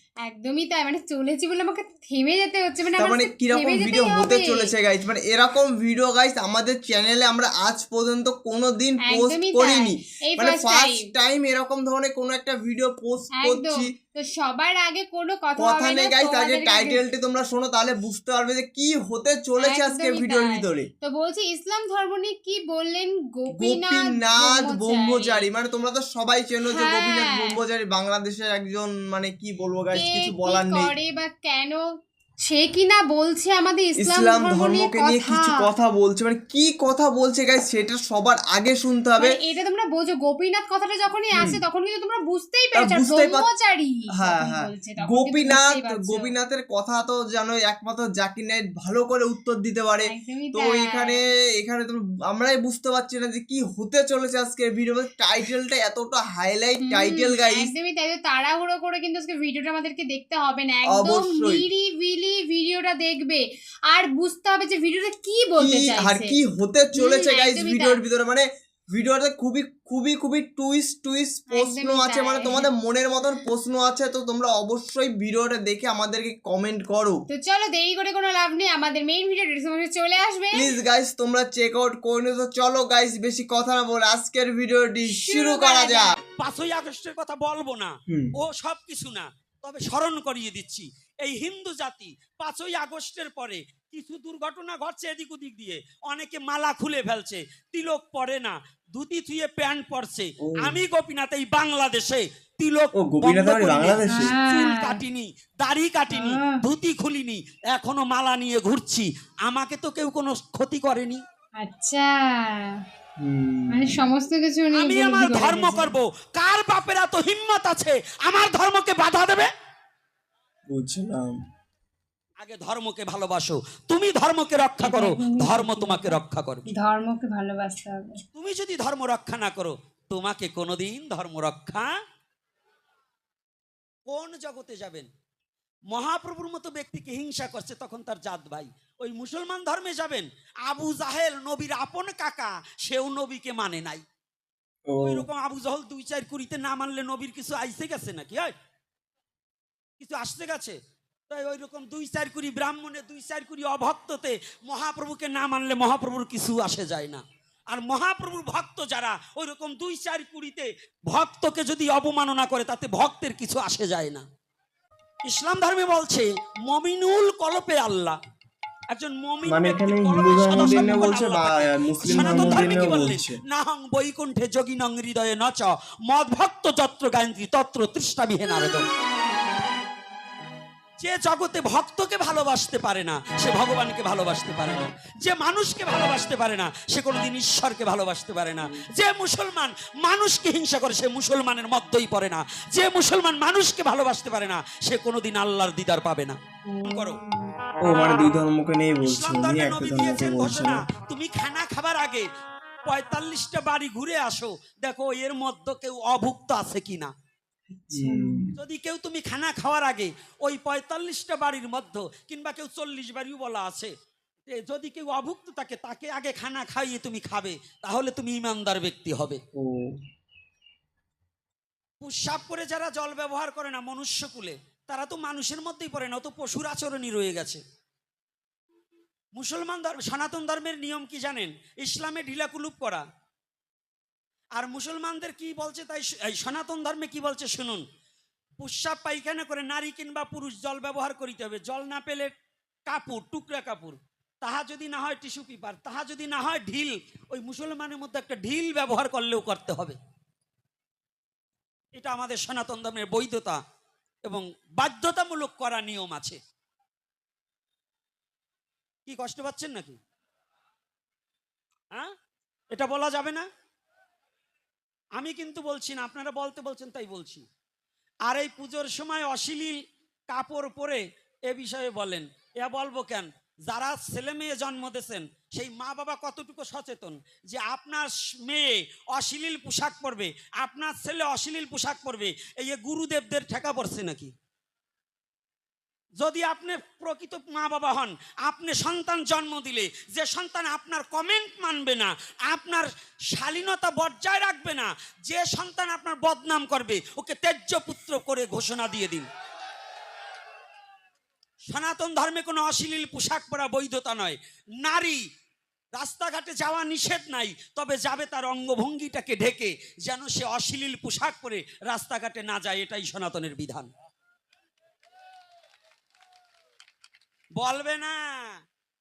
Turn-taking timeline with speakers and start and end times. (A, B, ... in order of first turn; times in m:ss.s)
0:00.2-0:04.7 A
0:03.0-0:13.9 B
0:09.0-0:11.1 A
0:13.4-0:17.0 A
0:15.6-0:20.9 B
0:19.6-0:25.5 A
0:23.5-0:30.9 B
0:26.7-0:27.6 A
0:29.9-0:31.8 A
0:32.4-0:35.7 A
0:34.0-0:39.4 B
0:39.2-0:46.3 A
0:41.4-0:41.6 B
0:42.8-0:43.5 B
0:44.2-0:57.7 B
0:50.0-0:51.2 A
0:56.8-1:06.4 A
1:00.9-1:01.6 B
1:05.6-1:17.2 B
1:07.0-1:08.0 A
1:11.5-1:12.7 A
1:17.3-1:20.7 A
1:20.5-1:26.1 B
1:25.1-1:26.2 A
1:26.4-1:51.2 C
1:28.1-1:28.3 B
1:40.4-1:40.8 B
1:43.0-1:44.3 B
1:44.1-1:45.0 A
1:46.1-1:46.6 A
1:51.6-1:52.8 A
1:53.2-1:53.9 B
1:53.7-1:55.9 A
1:54.7-1:59.5 C
2:00.7-2:01.4 B
2:02.4-2:06.7 C
2:04.8-2:08.2 A
2:08.4-2:11.9 C
2:14.1-2:15.1 C
2:15.9-2:24.0 C
2:24.9-2:25.3 B
2:25.0-2:28.5 C
2:30.0-2:30.8 C
2:31.3-2:44.2 C
2:45.3-2:48.2 C
2:48.9-2:58.8 C
2:49.5-2:53.4 B
2:52.3-2:52.6 A
3:01.0-3:17.2 C
3:16.7-3:17.5 A
3:17.8-3:20.9 B
3:19.0-3:22.3 C
3:22.9-3:27.1 C
3:27.7-3:28.5 A
3:27.9-3:28.5 B
3:28.6-3:33.9 C
3:34.5-3:39.4 C
3:39.6-3:39.9 B
3:42.0-3:47.6 C
3:49.4-3:53.0 C
3:54.6-3:57.8 C
3:58.6-4:02.3 C
4:02.9-4:10.0 C
4:12.0-4:13.6 C
4:14.2-4:16.4 C
4:19.1-4:20.0 C
4:22.7-4:23.5 C
4:25.2-4:27.5 C
4:28.3-4:29.8 C
4:30.3-4:44.3 C
4:46.2-4:59.3 C
5:01.7-5:05.2 C
5:06.0-5:13.9 C
5:17.6-5:18.6 C